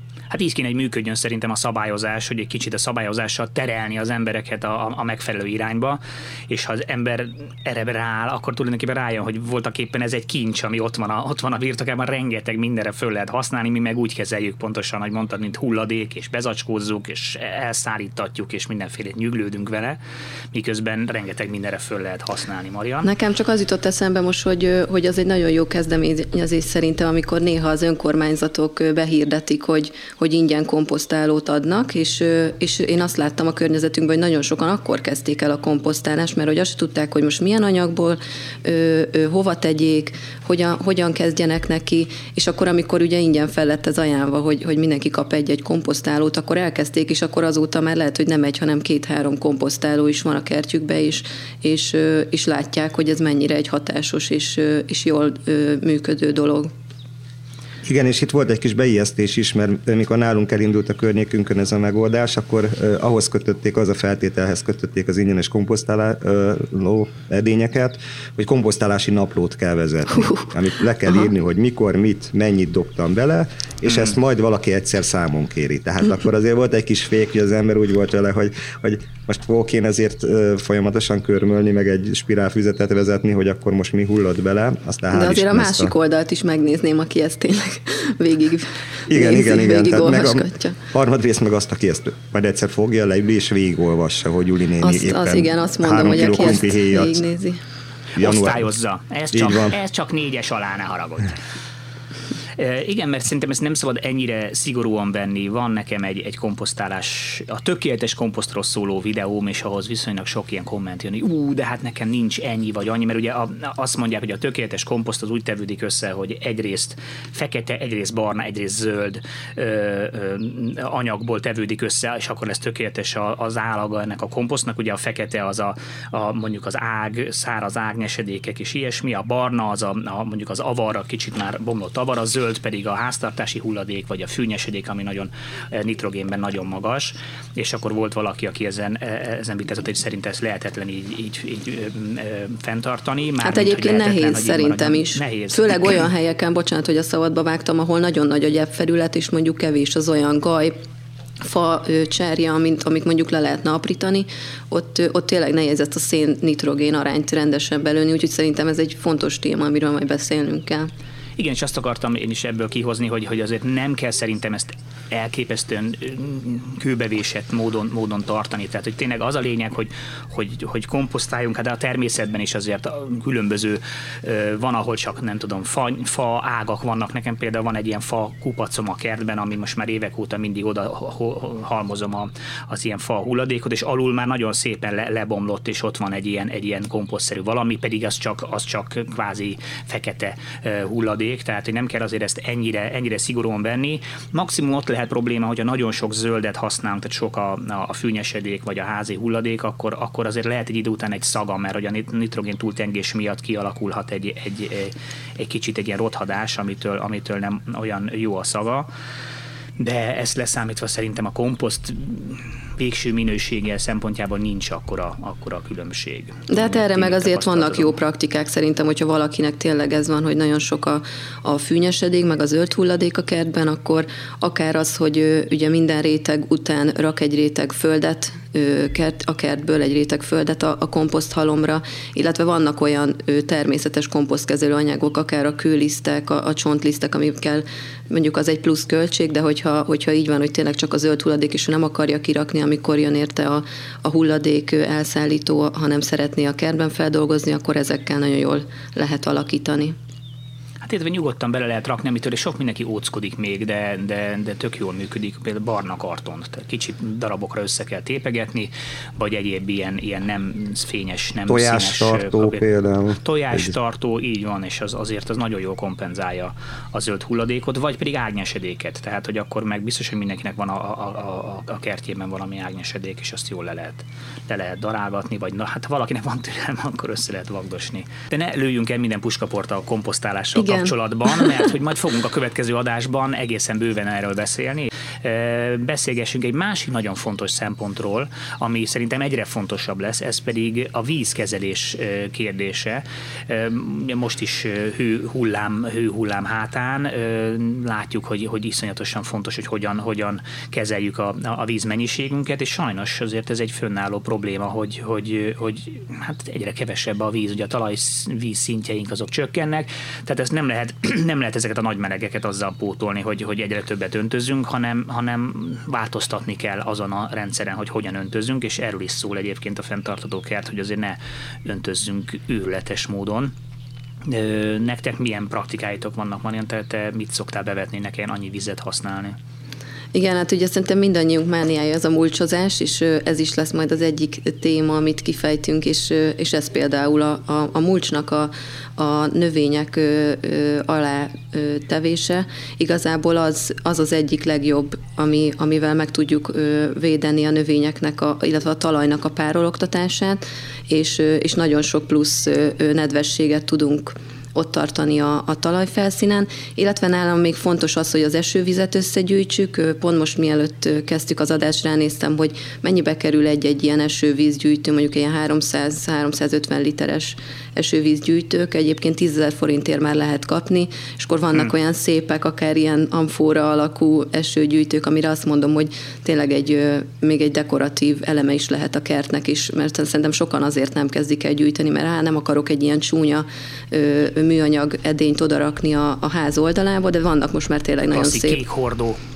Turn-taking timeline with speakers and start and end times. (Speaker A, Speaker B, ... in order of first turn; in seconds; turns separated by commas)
Speaker A: 0.3-20.0, Speaker A: 20.5-23.1, Speaker B: 23.0-56.7, Speaker C: 57.9-85.9, Speaker B: 85.1-90.8, Speaker C: 89.1-97.2, Speaker B: 94.8-97.6, Speaker A: 98.2-101.3, Speaker C: 98.2-98.7, Speaker C: 99.3-99.8, Speaker A: 102.6-146.0, Speaker B: 143.4-150.8, Speaker B: 151.4-160.9, Speaker A: 161.4-208.9, Speaker A: 209.8-218.0, Speaker B: 216.5-250.0, Speaker A: 250.8-262.6, Speaker C: 261.5-263.7, Speaker A: 263.2-323.5, Speaker B: 280.6-281.5, Speaker A: 324.3-329.4, Speaker B: 330.1-388.6, Speaker A: 388.1-389.2